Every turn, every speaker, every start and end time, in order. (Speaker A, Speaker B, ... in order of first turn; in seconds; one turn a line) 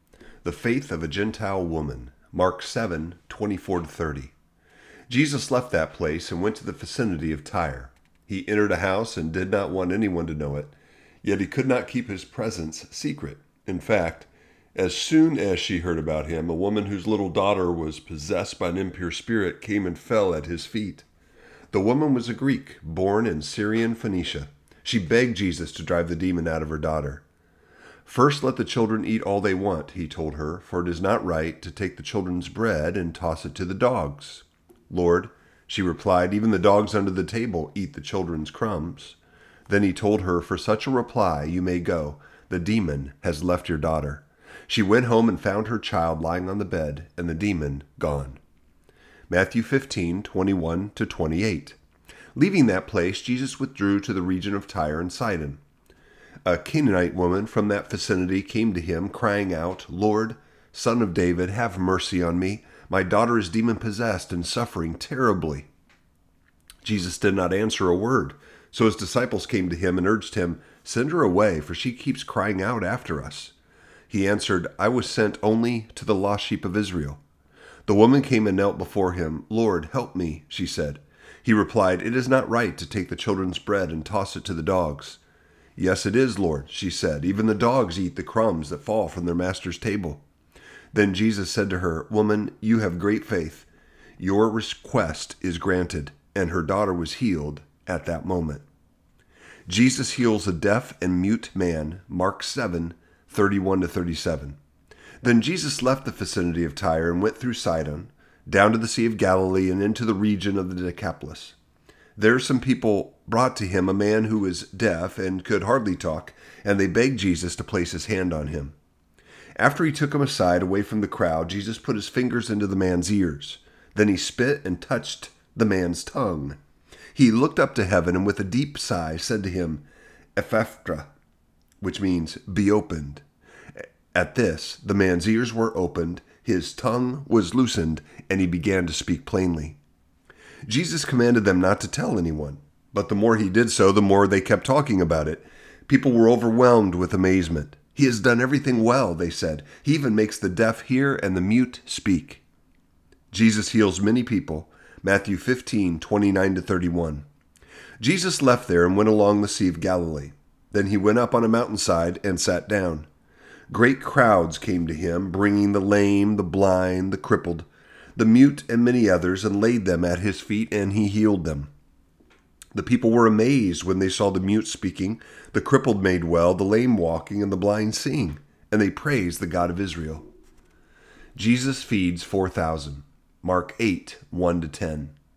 Speaker A: 0.4-4.3
Speaker A: 5.1-21.1
Speaker A: 21.7-27.2
Speaker A: 28.1-48.4
Speaker A: 49.3-51.8
Speaker A: 52.4-55.6
Speaker A: 56.5-65.7
Speaker A: 66.8-73.5
Speaker A: 74.1-77.2
Speaker A: 77.9-85.2
Speaker A: 85.8-90.2
Speaker A: 90.9-93.7
Speaker A: 94.2-98.7
Speaker A: 99.7-104.6
Speaker A: 105.2-111.6
Speaker A: 112.2-118.8
Speaker A: 119.6-126.6
Speaker A: 127.1-129.8
Speaker A: 130.4-131.1
Speaker A: 131.8-133.2
Speaker A: 133.8-139.8
Speaker A: 140.7-152.4
Speaker A: 153.3-157.3
Speaker A: 158.0-163.1
Speaker A: 163.7-171.7
Speaker A: 172.7-180.3
Speaker A: 181.4-185.2